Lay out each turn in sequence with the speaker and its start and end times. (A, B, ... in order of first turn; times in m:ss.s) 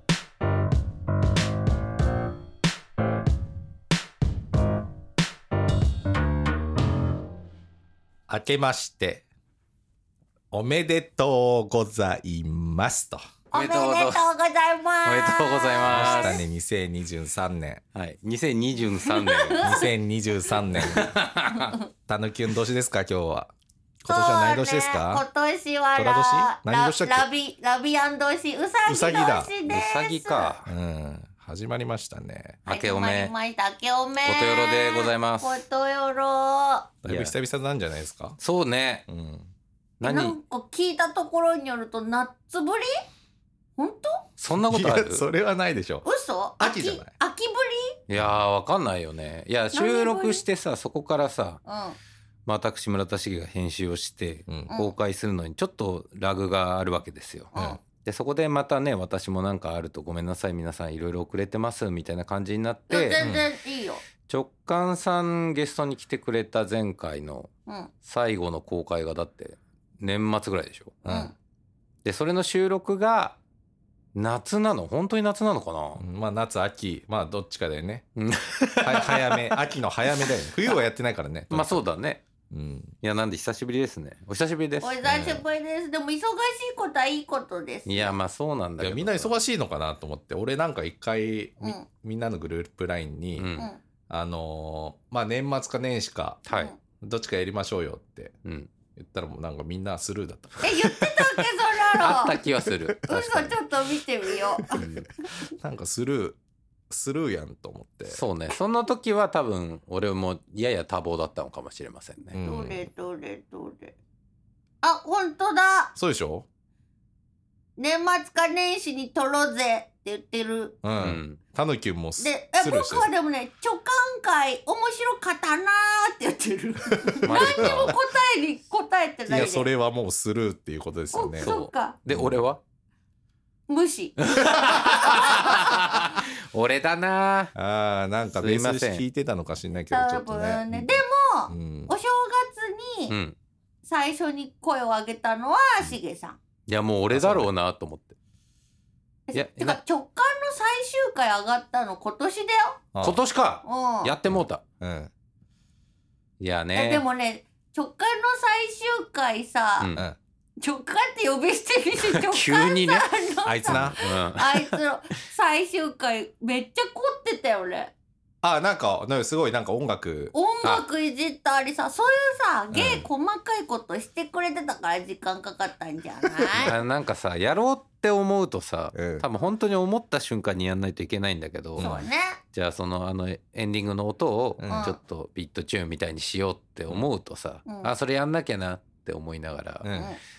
0:08.3-0:09.2 A
0:10.5-0:13.2 A
0:13.5-0:16.4 B
0:13.5-0:14.2 C
0:15.0-0:16.4 C
0:15.8-0:17.8 A
0:17.9-0:19.7 C
0:19.0-0:19.9 B
0:19.6-0:21.1 A
0:20.7-0:21.8 C
0:22.0-0:23.5 A
0:24.0-0:25.2 A
0:24.1-0:30.5 B
0:25.9-0:27.2 A
0:28.8-0:29.5 A
0:29.6-0:30.7 C
0:30.6-0:32.6 A
0:32.6-0:33.3 C
0:32.7-0:36.9 B
0:34.2-0:35.6 C
0:37.0-0:38.4 A
0:37.0-0:37.3 C
0:38.4-0:39.0 C
0:39.1-0:39.5 A
0:40.0-0:40.4 C
0:40.0-0:42.9 B
0:43.8-0:44.2 B
0:44.4-0:45.2 C
0:44.5-0:46.1 A
0:46.0-0:48.0 B
0:46.6-0:47.1 A
0:48.1-0:51.6 C
0:49.7-0:50.4 B
0:51.6-0:52.0 B
0:52.4-1:03.3 C
0:57.5-0:57.8 B
0:57.5-0:57.8 A
1:02.9-1:04.0 B
1:03.2-1:03.4 A
1:04.3-1:07.5 C
1:07.7-1:07.9 B
1:08.0-1:11.0 C
1:11.0-1:11.3 A
1:11.0-1:11.3 B
1:12.0-1:13.4 C
1:14.1-1:16.0 C
1:16.0-1:18.0 A
1:18.2-1:19.5 C
1:18.8-1:21.8 A
1:21.5-1:22.2 C
1:22.5-1:22.9 A
1:23.0-1:25.0 C
1:24.8-1:28.2 B
1:25.0-1:25.4 A
1:27.8-1:29.3 C
1:28.8-1:33.5 A
1:31.6-1:31.8 B
1:33.4-1:33.7 C
1:34.1-1:36.4 A
1:36.4-1:36.7 C
1:37.0-1:38.3 A
1:38.4-1:38.7 C
1:38.9-1:40.9 A
1:40.6-1:42.4 B
1:41.2-1:41.4 C
1:42.0-1:43.6 C
1:43.1-1:45.3 B
1:44.6-1:46.4 A
1:44.8-1:45.1 C
1:46.9-1:48.2 A
1:48.1-1:52.4 C
1:52.3-1:52.8 A
1:52.4-1:53.9 B
1:54.8-1:55.9 B
1:56.0-1:56.4 A
1:57.8-2:00.8 B
2:00.8-2:03.1 A
2:01.0-2:01.4 C
2:02.2-2:09.7 B
2:07.2-2:07.9 C
2:07.2-2:07.9 A
2:09.3-2:12.5 A
2:11.1-2:12.0 B
2:11.4-2:12.6 C
2:13.7-2:15.6 B
2:14.3-2:17.5 C
2:17.5-2:21.9 A
2:18.3-2:19.0 C
2:19.9-2:23.2 B
2:23.1-2:23.3 C
2:23.8-2:26.4 B
2:26.7-2:28.1 C
2:27.1-2:27.5 A
2:29.3-2:32.8 B
2:29.3-2:29.8 C
2:33.0-2:34.6 C
2:33.6-2:34.1 B
2:34.3-2:35.1 A
2:36.4-2:37.0 C
2:36.7-2:39.9 B
2:39.8-2:40.0 C
2:40.6-2:47.9 B
2:42.0-2:43.1 C
2:43.4-2:44.0 A
2:43.6-2:44.8 C
2:48.4-2:50.3 A
2:50.3-2:56.7 B
2:52.7-2:53.1 A
2:56.6-3:01.9 C
2:58.9-2:59.2 A
3:01.8-3:02.0 A
3:01.8-3:02.4 B
3:02.5-3:09.9 C
3:04.6-3:04.9 A
3:04.7-3:05.0 B
3:07.6-3:07.9 B
3:09.8-3:10.1 A
3:09.9-3:10.2 B